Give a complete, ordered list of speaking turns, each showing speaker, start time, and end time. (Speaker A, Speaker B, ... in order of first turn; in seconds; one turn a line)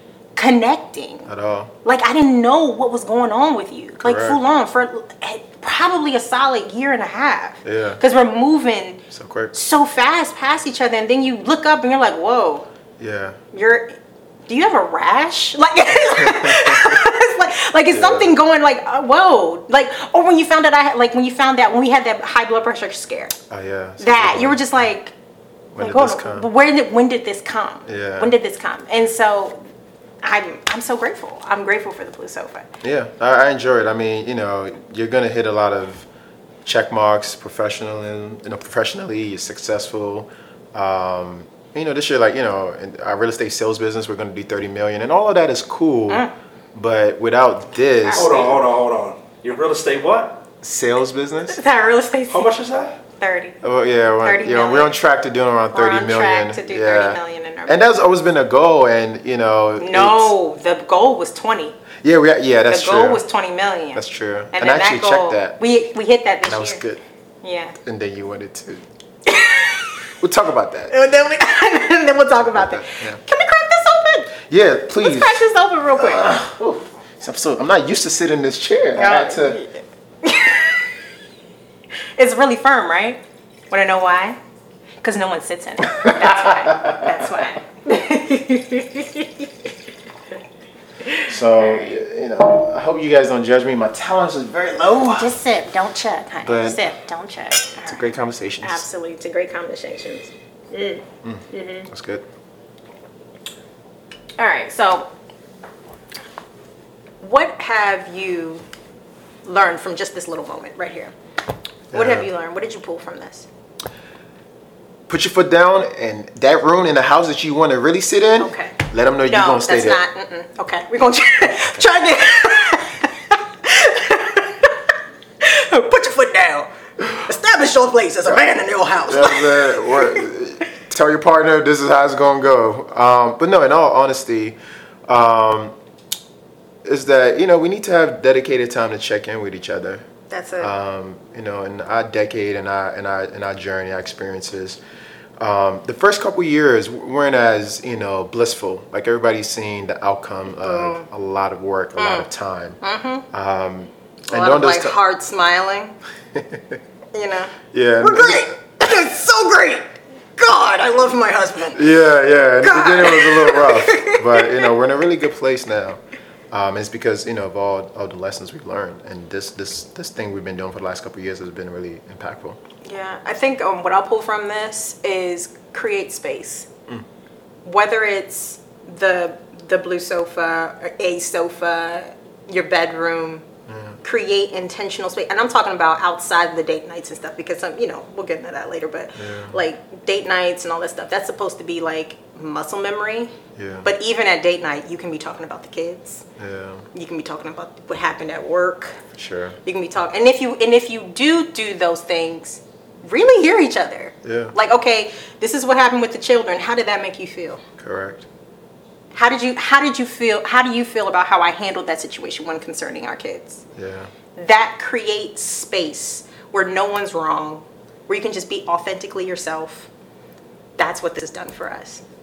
Speaker A: 0.3-1.3
Speaker B: 1.3-1.7
Speaker A: 1.8-9.0
Speaker B: 4.0-4.4
Speaker B: 7.6-8.0
Speaker B: 9.1-9.5
Speaker A: 9.5-12.7
Speaker B: 13.0-13.4
Speaker A: 13.5-13.9
Speaker A: 14.5-23.4
Speaker B: 16.1-17.0
Speaker B: 17.9-18.3
Speaker B: 23.5-24.9
Speaker A: 24.0-25.1
Speaker B: 25.7-26.5
Speaker A: 25.8-29.6
Speaker B: 27.9-28.3
Speaker A: 30.2-32.7
Speaker B: 32.8-36.1
Speaker B: 36.6-48.5
Speaker A: 48.0-48.5
Speaker C: 48.1-50.4
Speaker B: 50.6-51.6
Speaker A: 51.5-52.5
Speaker C: 52.3-53.0
Speaker A: 53.2-53.6
Speaker B: 53.6-60.3
Speaker A: 54.2-55.0
Speaker A: 55.7-57.9
Speaker A: 59.8-61.8
Speaker B: 62.0-63.2
Speaker A: 62.7-64.0
Speaker B: 63.9-65.6
Speaker A: 64.5-66.8
Speaker B: 66.4-67.0
Speaker A: 67.4-67.8
Speaker B: 67.8-68.8
Speaker A: 69.2-69.9
Speaker B: 70.2-71.0
Speaker A: 70.9-74.3
Speaker B: 72.5-73.2
Speaker B: 74.5-75.4
Speaker A: 75.0-76.4
Speaker B: 75.9-79.6
Speaker A: 79.0-80.9
Speaker A: 82.2-84.4
Speaker A: 85.0-89.5
Speaker B: 85.9-87.1
Speaker A: 91.0-92.0
Speaker B: 91.2-95.3
Speaker A: 95.2-98.0
Speaker B: 96.4-96.8
Speaker B: 97.8-98.8
Speaker A: 98.6-101.9
Speaker B: 101.2-102.2
Speaker A: 104.4-105.1
Speaker A: 107.2-108.6
Speaker A: 109.4-111.1
Speaker B: 111.9-112.3
Speaker A: 111.9-113.5
Speaker B: 115.1-120.0
Speaker A: 118.4-130.2
Speaker B: 121.4-121.8
Speaker B: 129.0-135.7
Speaker B: 136.8-140.1
Speaker A: 140.3-140.7
Speaker B: 140.6-144.8
Speaker B: 145.4-152.8
Speaker A: 150.6-151.1
Speaker A: 152.0-152.3
Speaker A: 152.8-153.3
Speaker B: 153.3-155.0
Speaker A: 154.3-155.9
Speaker B: 156.3-156.8
Speaker A: 157.1-162.0
Speaker B: 157.7-158.6
Speaker B: 161.7-166.0
Speaker A: 162.6-164.7
Speaker B: 166.5-172.6
Speaker A: 172.8-176.7
Speaker A: 177.6-183.4
Speaker B: 183.7-184.0
Speaker A: 184.0-196.2
Speaker B: 189.2-189.6
Speaker B: 193.6-193.9
Speaker B: 196.4-196.9
Speaker A: 196.9-199.0
Speaker B: 199.1-199.6
Speaker A: 199.6-207.6
Speaker B: 204.2-204.6
Speaker B: 207.8-208.3
Speaker A: 209.1-213.6
Speaker B: 213.8-214.1
Speaker A: 214.3-219.9
Speaker A: 220.8-222.0